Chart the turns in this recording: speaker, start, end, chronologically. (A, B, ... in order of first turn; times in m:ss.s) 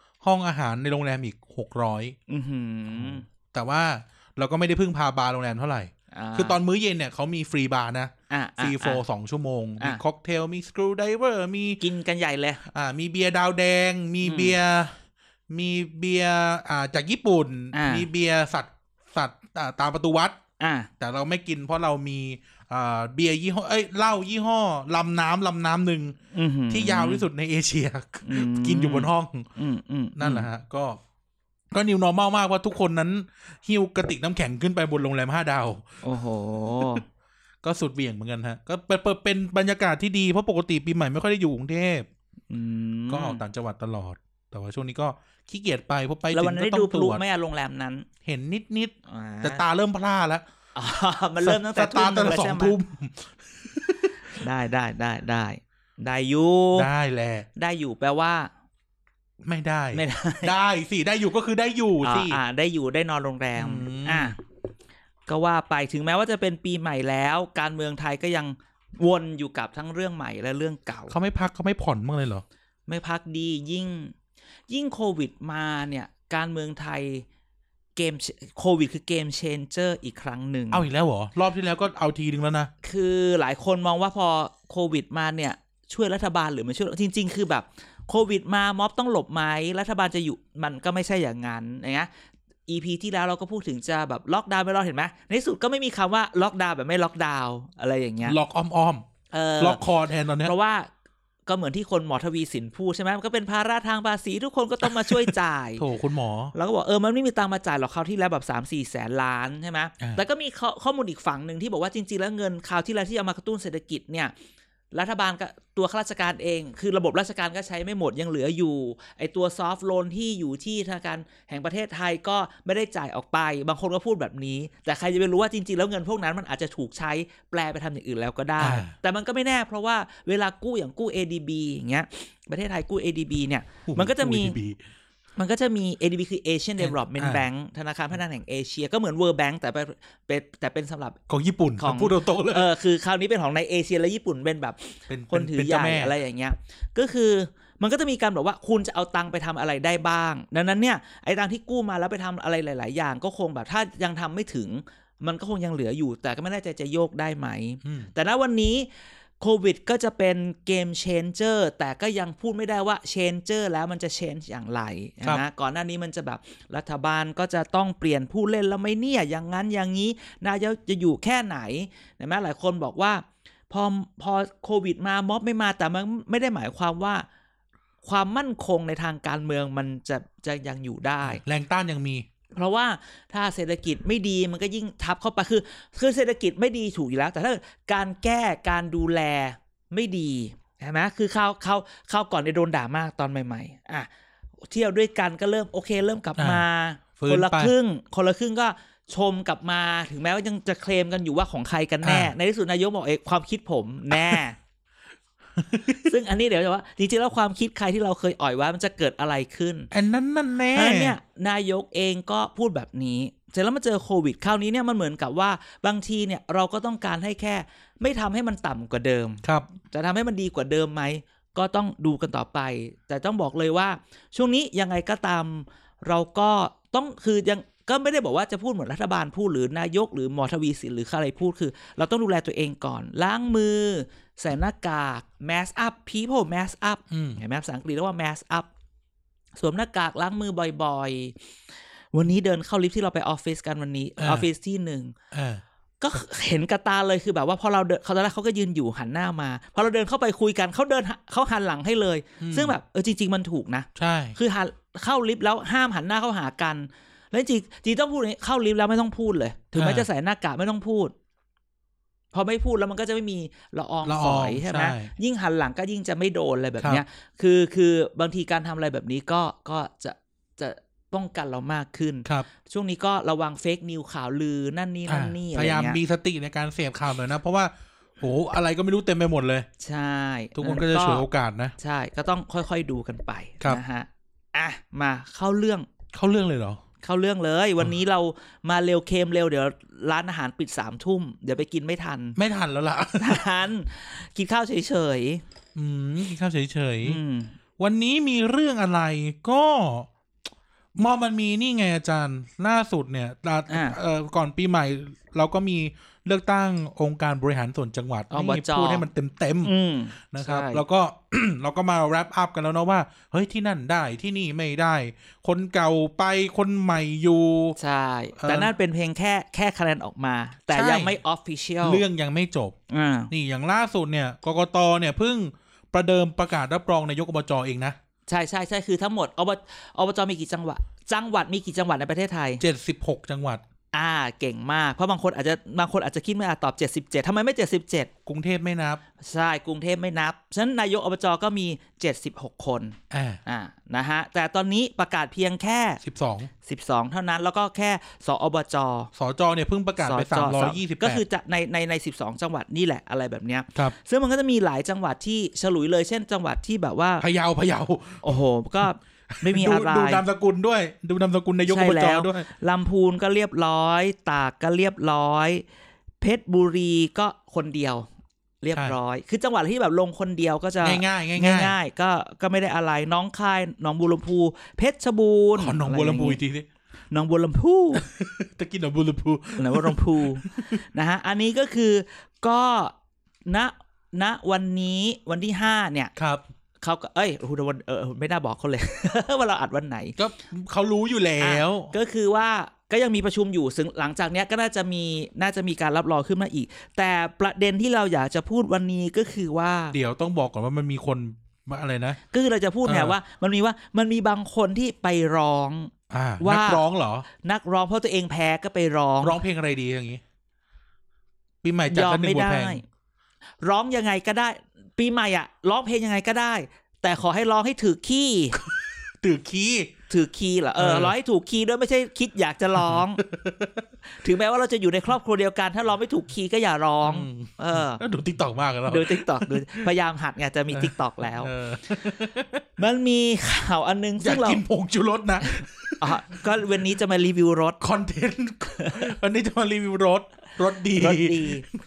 0:00.2-0:02.2 A
0:02.3-0:03.2 B
0:02.9-0:11.8 A
0:06.1-0:06.6 B
0:08.3-0:09.0 B
0:11.8-0:12.6 B
0:12.6-0:15.0 A
0:14.2-0:14.6 B
0:15.5-0:20.4 A
0:17.7-0:18.1 B
0:20.6-0:20.9 B
0:21.0-0:26.2 A
0:26.3-0:27.3 B
0:26.7-0:29.5 A
0:28.2-0:30.5 B
0:30.2-0:31.0 A
0:31.7-0:35.9 A
0:36.0-0:37.0 B
0:37.6-0:42.1 A
0:42.5-0:43.4 B
0:43.1-0:47.2 A
0:46.3-0:48.1 B
0:48.2-0:50.4 A
0:49.1-0:49.6 B
0:50.8-0:52.8 B
0:51.4-0:54.4 A
0:54.3-0:56.9 B
0:56.8-0:57.5 A
0:57.6-0:58.5 B
0:59.4-1:02.4 A
0:59.9-1:00.5 B
1:02.0-1:04.4 B
1:03.6-1:04.3 A
1:05.3-1:11.1 B
1:11.1-1:12.4 A
1:12.9-1:14.1 B
1:14.7-1:17.2 B
1:18.0-1:20.8 B
1:20.7-1:22.7 A
1:22.8-1:32.1 B
1:32.7-1:38.4 B
1:38.2-1:39.0 A
1:39.3-1:39.8 B
1:39.6-1:40.5 A
1:40.4-1:40.9 B
1:41.5-1:45.8 B
1:45.1-1:46.5 A
1:46.6-1:54.3 B
1:54.9-2:14.6 B
2:08.6-2:08.9 A
2:13.9-2:14.8 A
2:15.4-2:21.2 B
2:16.8-2:17.5 A
2:21.3-2:22.7 A
2:21.8-2:38.9 B
2:25.1-2:26.1 A
2:37.8-2:38.1 A
2:39.4-2:57.2 B
2:58.0-3:01.4 B
3:01.2-3:02.2 A
3:02.5-3:14.1 B
3:14.7-3:24.6 B
3:16.4-3:16.6 A
3:17.2-3:17.7 A
3:22.0-3:22.3 A
3:24.1-3:24.4 A
3:25.6-3:26.1 A
3:26.0-3:29.9 B
3:29.9-3:31.2 A
3:30.7-3:58.7 B
3:57.1-3:57.4 A
3:59.6-4:01.4 B
4:02.1-4:05.2 B
4:04.2-4:04.5 A
4:05.3-4:05.6 A
4:06.0-4:21.1 B
4:12.4-4:12.7 A
4:14.0-4:14.4 A
4:19.8-4:20.1 A
4:22.3-4:36.0 B
4:24.0-4:25.1 A
4:35.1-4:39.7 A
4:39.8-4:41.2 B
4:40.6-4:41.7 A
4:41.8-4:45.9 B
4:46.1-4:46.8 A
4:47.0-4:52.4 B
4:52.4-4:53.5 A
4:53.2-4:55.4 B
4:55.8-4:57.2 A
4:57.0-4:57.5 B
4:57.8-5:00.1 A
5:01.0-5:09.7 A
5:03.7-5:04.0 B
5:08.3-5:09.1 B
5:09.6-5:10.8 B
5:10.3-5:17.8 A
5:17.8-5:22.0 B
5:18.4-5:18.7 A
5:20.7-5:21.2 A
5:21.8-5:22.8 A
5:22.9-5:23.3 B
5:23.3-5:28.0 A
5:28.3-5:32.6 B
5:32.6-5:33.6 A
5:33.9-5:38.1 B
5:38.3-5:39.0 A
5:39.2-5:46.0 B
5:43.1-5:43.4 A
5:46.0-5:46.5 A
5:46.6-5:49.1 B
5:49.2-5:51.2 A
5:50.0-5:57.3 B
5:57.2-6:02.5 A
5:58.2-6:00.2 B
6:01.7-6:05.6 B
6:06.2-6:08.1 B
6:08.6-6:16.4 B
6:10.8-6:11.8 A
6:15.6-6:16.7 A
6:17.1-6:18.1 B
6:18.0-6:20.7 A
6:19.6-6:22.9 B
6:23.5-6:26.1 B
6:26.2-6:26.4 A
6:26.8-6:30.2 B
6:30.2-6:31.9 A
6:31.4-6:40.0 B
6:39.9-6:42.2 A
6:42.3-6:49.4 B
6:42.8-6:43.2 A
6:46.1-6:47.3 A
6:49.2-6:50.2 A
6:51.6-6:52.8 A
6:51.9-6:52.8 B
6:53.6-6:58.6 B
6:58.6-6:59.9 A
7:00.1-7:03.2 B
7:00.8-7:01.2 A
7:02.8-7:03.8 A
7:04.2-7:08.0 B
7:07.0-7:09.9 A
7:08.9-7:11.5 B
7:10.7-7:12.7 A
7:12.8-7:14.6 B
7:14.2-7:16.2 A
7:15.6-7:17.8 B
7:17.8-7:21.6 A
7:18.8-7:19.1 B
7:20.9-7:21.7 B